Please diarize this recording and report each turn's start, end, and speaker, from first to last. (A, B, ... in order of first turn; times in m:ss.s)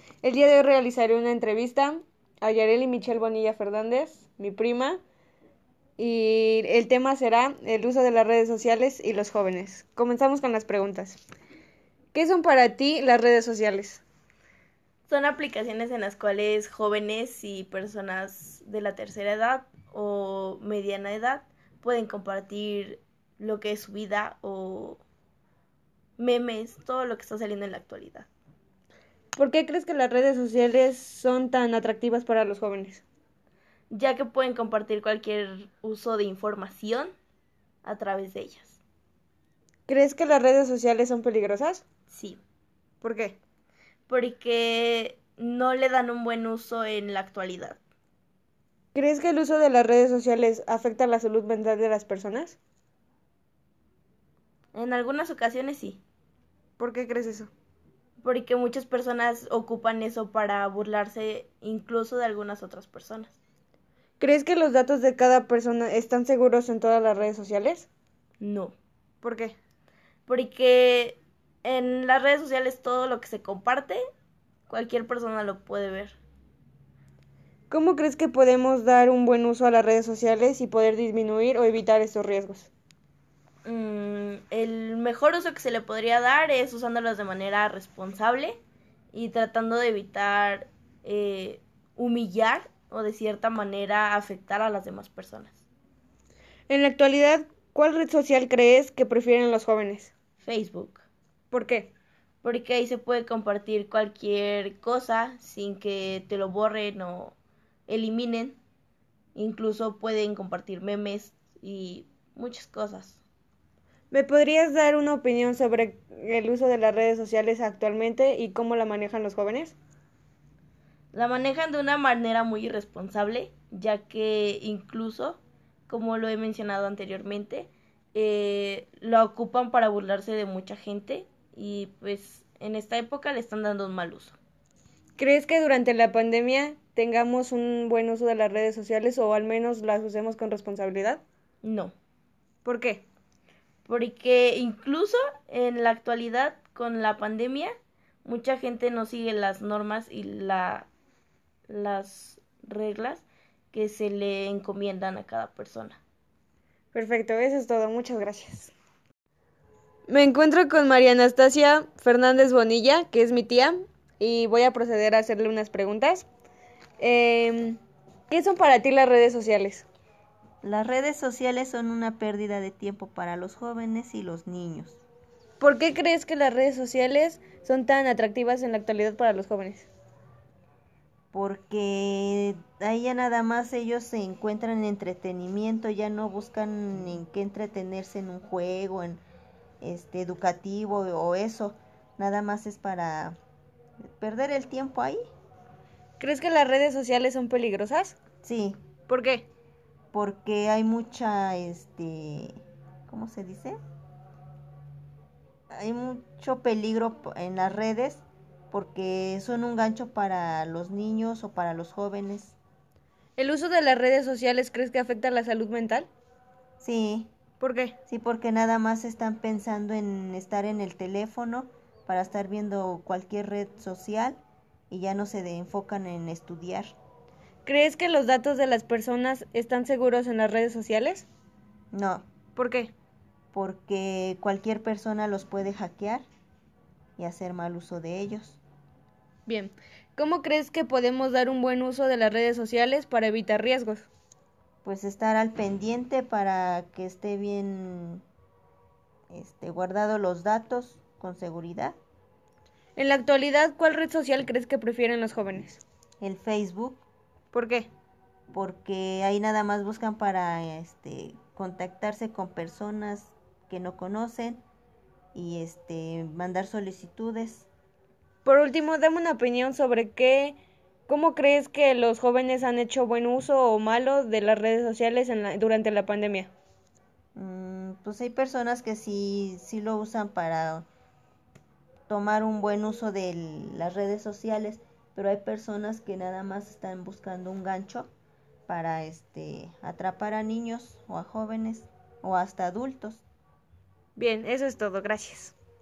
0:00.2-0:05.0 A
0:06.0-0:11.2 A
0:12.1-0:14.0 A
0:15.1-0:25.0 B
0:26.2-0:28.3 B
0:29.4-0:33.0 A
0:33.9-0:37.1 B
0:37.8-0:38.8 B
0:39.9-0:41.8 A
0:42.1-0:42.4 B
0:43.0-0:43.4 A
0:44.1-0:47.8 B
0:48.9-0:52.6 A
0:54.7-0:56.0 B
0:56.8-0:57.5 A
0:58.2-1:03.4 B
1:04.2-1:07.9 A
1:08.4-1:08.8 B
1:09.2-1:09.6 A
1:10.3-1:14.0 B
1:14.7-1:16.2 B
1:17.7-1:22.7 A
1:23.6-1:28.6 B
1:29.1-1:35.6 B
1:36.7-1:40.1 A
1:40.4-1:41.0 B
1:41.5-1:41.9 A
1:42.4-1:47.3 B
1:47.9-1:48.6 B
1:49.3-1:53.2 B
1:54.1-1:59.8 A
2:01.1-2:14.4 B
2:15.2-2:21.2 A
2:21.6-2:21.9 B
2:22.6-2:23.0 A
2:23.8-2:27.7 B
2:28.2-2:30.9 B
2:31.7-2:36.0 B
2:36.9-2:38.7 A
2:40.1-2:46.3 A
2:47.0-2:49.8 A
2:50.6-2:55.0 C
2:55.6-2:59.9 A
3:01.3-3:09.2 C
3:09.8-3:13.4 C
3:14.2-3:15.2 C
3:16.2-3:18.2 A
3:18.4-3:18.8 C
3:19.1-3:19.4 A
3:20.1-3:23.8 C
3:25.7-3:32.6 C
3:33.4-3:36.1 A
3:36.8-3:37.3 C
3:37.6-3:38.0 A
3:38.1-3:47.0 C
3:47.6-3:51.2 A
3:51.9-3:52.2 C
3:52.6-3:52.9 A
3:53.5-3:56.2 C
3:57.2-3:58.6 C
3:59.4-4:04.1 A
4:04.8-4:08.2 C
4:09.3-4:12.0 C
4:13.0-4:15.8 A
4:16.2-4:17.0 C
4:17.5-4:17.9 A
4:18.5-4:24.6 C
4:25.3-4:27.7 C
4:28.4-4:36.5 A
4:37.3-4:40.8 C
4:42.1-4:48.1 C
4:48.7-4:53.2 C
4:54.2-4:55.5 A